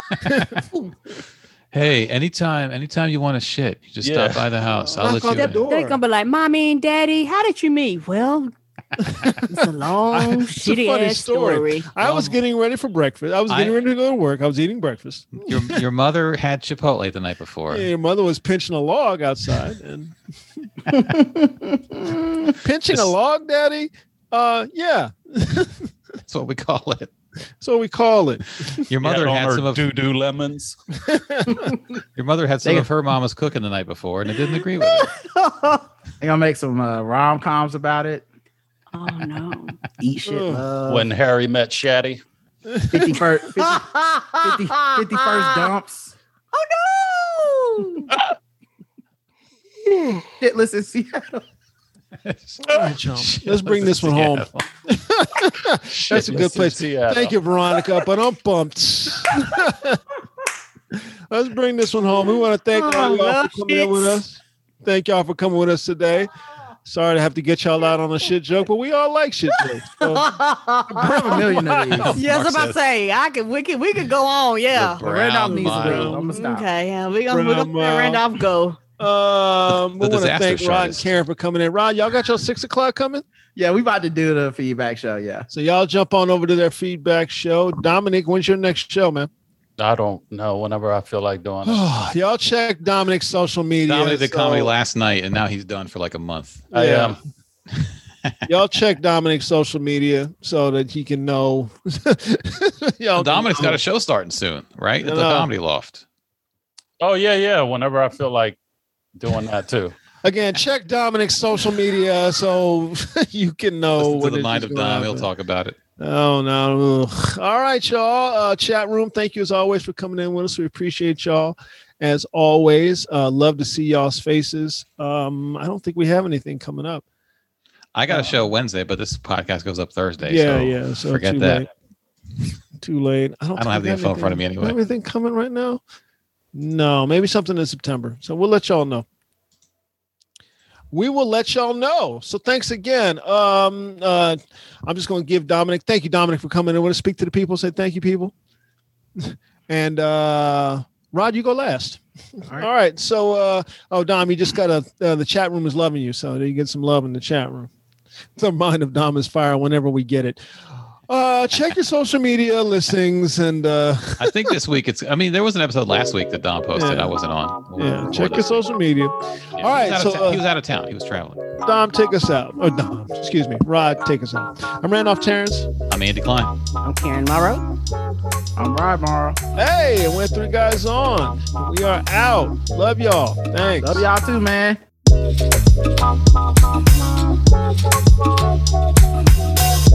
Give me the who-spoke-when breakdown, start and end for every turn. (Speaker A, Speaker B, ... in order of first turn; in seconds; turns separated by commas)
Speaker A: 0.2-0.6, Speaker A: 1.7-5.6, Speaker B: 4.0-4.5, Speaker C: 4.8-6.0, Speaker D: 5.5-8.5, Speaker C: 9.1-9.6, Speaker D: 9.4-11.9, Speaker C: 10.1-15.8, Speaker A: 12.0-12.4, Speaker A: 13.5-13.8, Speaker A: 15.4-17.9, Speaker C: 17.7-20.1, Speaker E: 21.0-22.5, Speaker C: 22.6-25.9, Speaker A: 26.3-27.1, Speaker C: 27.6-28.8, Speaker A: 28.9-29.9, Speaker B: 29.0-30.8, Speaker C: 31.0-31.7, Speaker A: 32.2-35.1, Speaker D: 35.3-35.8, Speaker E: 36.2-38.2, Speaker D: 38.9-39.8, Speaker E: 40.0-41.1, Speaker C: 40.2-40.6, Speaker B: 40.9-42.2, Speaker C: 42.7-43.2, Speaker E: 42.9-43.9, Speaker D: 43.6-45.7, Speaker E: 44.4-46.1, Speaker D: 46.5-48.1, Speaker E: 50.4-51.4, Speaker A: 52.2-54.7, Speaker C: 52.7-60.0, Speaker B: 55.9-57.3, Speaker C: 60.9-66.3, Speaker D: 62.7-64.2, Speaker C: 66.9-70.3, Speaker D: 70.0-71.3, Speaker C: 70.9-72.1, Speaker E: 71.0-72.1, Speaker A: 72.0-72.8, Speaker D: 72.1-75.0, Speaker A: 74.7-76.2, Speaker E: 75.0-76.7, Speaker C: 75.7-76.3, Speaker D: 76.3-78.8, Speaker C: 77.3-78.2, Speaker C: 79.0-83.2, Speaker A: 80.0-81.1, Speaker E: 83.6-85.5, Speaker C: 85.5-89.3, Speaker B: 89.8-91.8, Speaker C: 91.7-94.7, Speaker A: 93.9-96.7, Speaker C: 96.7-97.2, Speaker B: 96.7-97.2, Speaker C: 98.5-103.8, Speaker A: 103.2-106.0, Speaker C: 105.0-105.5, Speaker B: 107.0-108.6, Speaker B: 109.2-110.0, Speaker C: 110.2-115.3, Speaker A: 114.0-115.8, Speaker C: 116.0-127.0, Speaker A: 128.0-131.7, Speaker C: 128.1-128.5, Speaker C: 130.2-131.7, Speaker C: 132.8-135.8, Speaker A: 133.6-134.8, Speaker C: 136.5-139.1, Speaker C: 140.9-148.3, Speaker C: 149.2-152.0, Speaker C: 152.5-157.7, Speaker C: 158.4-160.4, Speaker C: 161.1-164.5, Speaker A: 164.2-168.6, Speaker C: 166.8-167.2, Speaker C: 167.8-170.4, Speaker A: 169.6-171.5, Speaker C: 171.6-175.7, Speaker A: 175.9-176.6, Speaker D: 176.8-177.6, Speaker E: 178.6-179.4, Speaker C: 179.6-184.1, Speaker E: 183.8-184.8